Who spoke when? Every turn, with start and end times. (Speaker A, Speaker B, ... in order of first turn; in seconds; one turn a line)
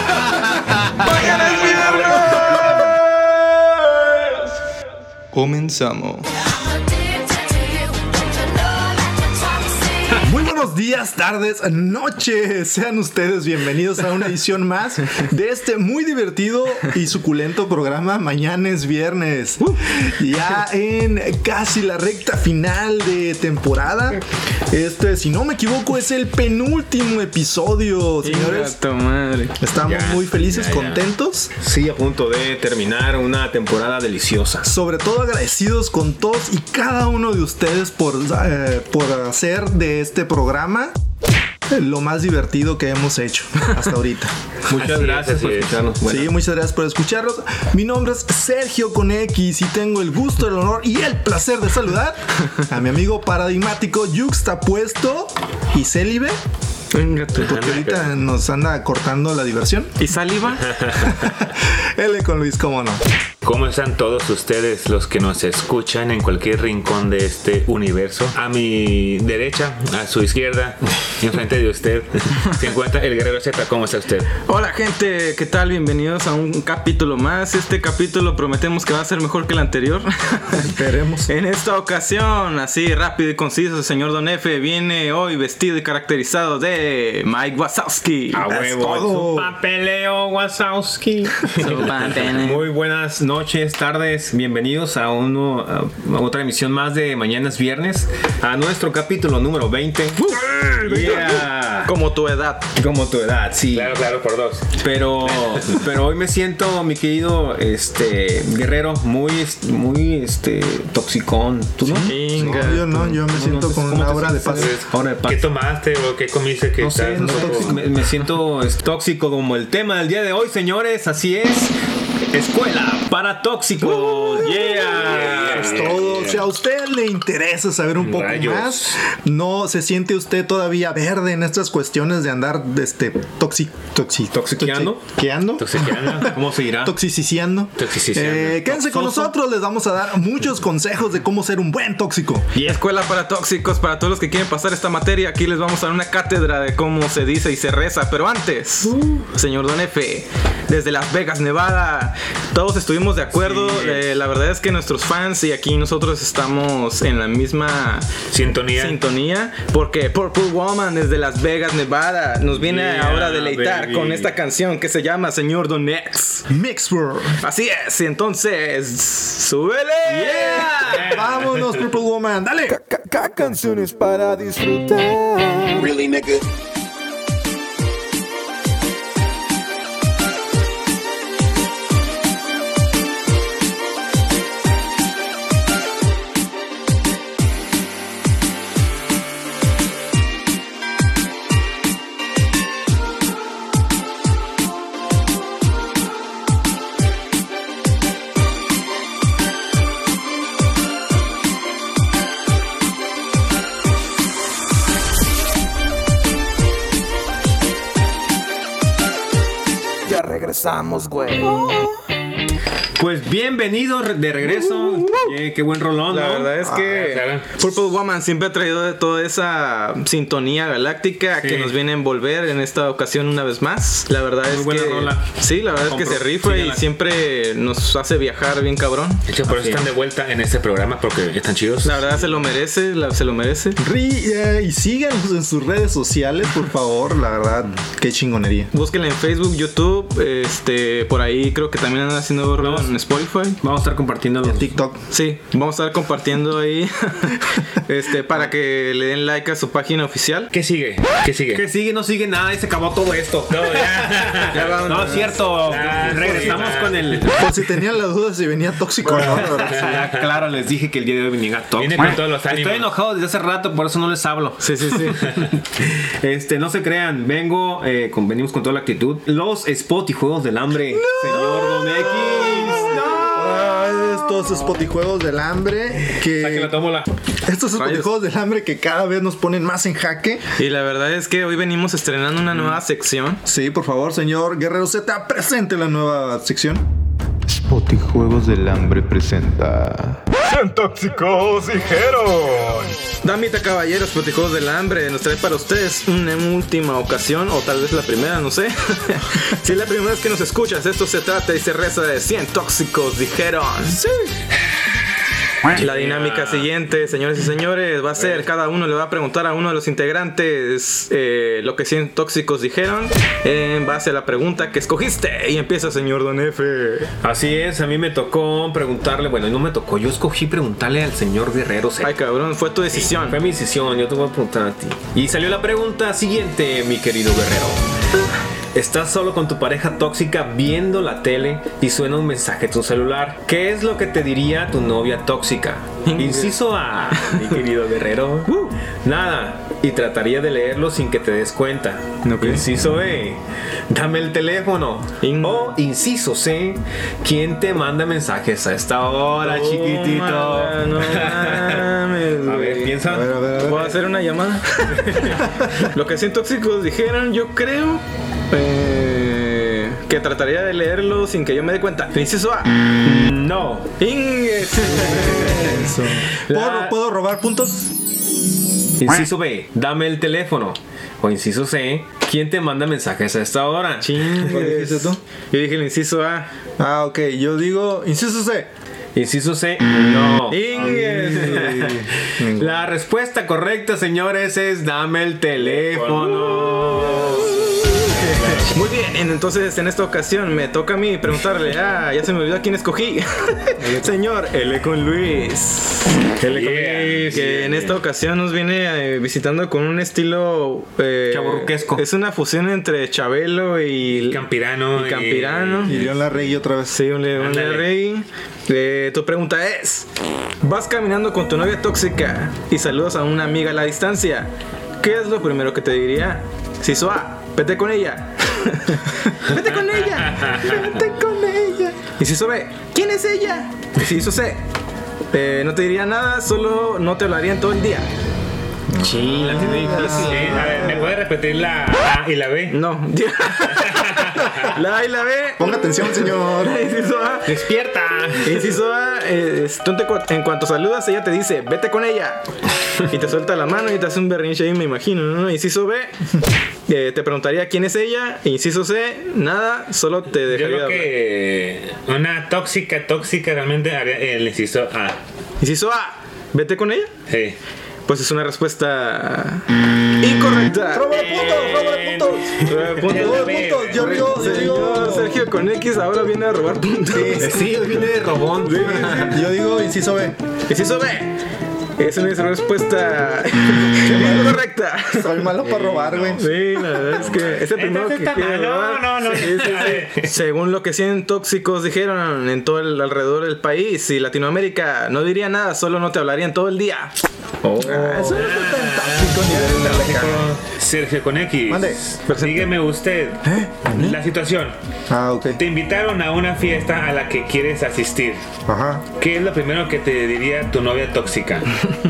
Speaker A: 1.0-2.9
Speaker A: 5.3-6.3
Speaker B: 7.0-8.1
Speaker C: 10.2-28.8
Speaker A: 28.2-29.6
Speaker C: 29.6-31.5
Speaker D: 29.8-31.0
Speaker E: 31.6-34.7
Speaker C: 34.7-40.9
Speaker C: 41.7-44.3
Speaker E: 44.7-46.4
Speaker D: 44.7-45.8
Speaker C: 46.0-56.4
Speaker A: 56.9-57.8
Speaker C: 57.4-60.0
Speaker D: 57.4-58.1
Speaker A: 60.0-60.8
Speaker C: 61.0-63.0
Speaker D: 63.4-74.3
Speaker A: 74.5-88.8
Speaker C: 80.6-81.3
Speaker E: 88.3-101.9
Speaker C: 88.8-89.5
Speaker A: 91.5-92.7
Speaker A: 100.2-102.7
Speaker E: 102.8-104.0
Speaker D: 103.7-104.7
Speaker E: 104.8-115.5
Speaker C: 111.8-114.8
Speaker A: 112.0-112.8
Speaker D: 114.6-117.8
Speaker E: 116.8-121.7
Speaker C: 117.1-117.8
Speaker E: 122.3-126.4
Speaker C: 124.6-142.5
Speaker D: 125.0-126.1
Speaker D: 128.0-129.0
Speaker E: 134.3-135.0
Speaker D: 135.6-136.4
Speaker E: 136.0-136.9
Speaker D: 137.8-138.7
Speaker E: 138.7-139.3
Speaker A: 142.6-158.1
Speaker E: 148.8-149.3
Speaker E: 153.3-154.0
Speaker D: 158.3-159.0
Speaker A: 158.8-166.5
Speaker E: 162.6-164.3
Speaker C: 166.5-167.4
Speaker A: 167.4-170.8
Speaker E: 170.1-171.2
Speaker D: 170.9-171.8
Speaker C: 170.9-172.8
Speaker B: 172.9-176.0
Speaker F: 173.6-174.3
Speaker F: 175.8-176.4
Speaker B: 210.1-211.9
Speaker E: 213.0-216.7
Speaker A: 215.0-215.3
Speaker A: 216.1-229.2
Speaker D: 216.7-217.5
Speaker E: 221.4-221.8
Speaker E: 224.5-226.8
Speaker D: 229.3-232.3
Speaker E: 229.5-229.9
Speaker A: 231.8-233.8
Speaker C: 233.8-238.7
Speaker A: 238.7-243.6
Speaker E: 242.6-242.9
Speaker E: 243.6-244.8
Speaker C: 244.4-245.0
Speaker A: 245.1-250.5
Speaker D: 250.5-251.6
Speaker E: 251.5-257.5
Speaker D: 253.5-254.7
Speaker A: 254.5-256.6
Speaker D: 255.7-257.3
Speaker C: 257.3-260.0
Speaker E: 259.1-273.7
Speaker D: 259.7-260.2
Speaker D: 261.8-262.9
Speaker A: 264.6-265.2
Speaker C: 270.9-276.8
Speaker E: 276.3-277.1
Speaker C: 277.4-280.4
Speaker A: 277.8-278.1
Speaker A: 280.6-283.4
Speaker C: 283.4-286.8
Speaker F: 287.5-290.2
Speaker A: 290.5-304.1
Speaker E: 305.8-306.7
Speaker A: 305.8-317.1
Speaker E: 308.2-308.5
Speaker E: 317.2-322.1
Speaker A: 322.0-323.4
Speaker E: 322.9-327.8
Speaker E: 328.7-353.4
Speaker A: 336.1-336.6
Speaker A: 338.5-338.8
Speaker A: 342.2-342.6
Speaker A: 345.2-345.8
Speaker A: 349.4-353.0
Speaker C: 353.1-354.0
Speaker A: 353.6-362.7
Speaker E: 355.0-355.3
Speaker C: 355.4-355.7
Speaker E: 363.0-363.9
Speaker A: 364.0-365.9
Speaker C: 365.4-367.9
Speaker E: 366.5-367.0
Speaker E: 369.0-374.6
Speaker A: 374.0-376.5
Speaker C: 374.4-375.2
Speaker C: 376.8-378.7
Speaker E: 379.1-388.4
Speaker A: 380.5-382.0
Speaker C: 380.9-382.8
Speaker D: 385.6-388.8
Speaker A: 388.0-396.2
Speaker C: 393.8-394.1
Speaker E: 396.4-397.5
Speaker D: 396.5-398.0
Speaker A: 397.2-406.0
Speaker E: 401.3-402.0
Speaker D: 404.1-406.2
Speaker C: 405.9-407.0
Speaker A: 406.9-410.1
Speaker D: 407.4-407.9
Speaker A: 410.6-424.6
Speaker D: 419.5-421.0
Speaker C: 420.8-421.7
Speaker A: 425.3-428.1
Speaker C: 428.9-431.2
Speaker E: 429.0-431.0
Speaker D: 430.0-432.8
Speaker A: 432.7-434.1
Speaker D: 433.6-434.8
Speaker A: 434.7-437.5
Speaker C: 435.6-436.8
Speaker E: 437.5-438.8
Speaker A: 438.4-442.5
Speaker A: 443.1-446.2
Speaker A: 446.9-451.1
Speaker D: 450.5-455.2
Speaker A: 455.6-457.1
Speaker D: 457.3-457.6
Speaker A: 458.1-459.6
Speaker A: 460.2-461.3
Speaker C: 460.9-465.4
Speaker E: 461.4-462.2
Speaker A: 462.6-467.7
Speaker D: 463.1-464.3
Speaker E: 464.0-464.8
Speaker C: 467.1-467.7
Speaker E: 467.1-469.4
Speaker A: 468.6-469.4
Speaker C: 468.8-470.4
Speaker A: 470.7-471.4
Speaker A: 472.0-475.5
Speaker C: 475.1-476.6
Speaker E: 475.6-477.6
Speaker A: 476.4-487.2
Speaker D: 477.0-480.3
Speaker E: 479.4-480.3
Speaker E: 487.6-488.2
Speaker A: 487.8-488.4
Speaker C: 487.8-490.5
Speaker D: 488.3-494.8
Speaker C: 491.7-492.0
Speaker A: 492.3-492.8
Speaker A: 493.4-494.1
Speaker C: 493.9-494.1
Speaker C: 495.1-495.6
Speaker D: 495.6-498.4
Speaker C: 498.6-499.1
Speaker D: 499.2-501.8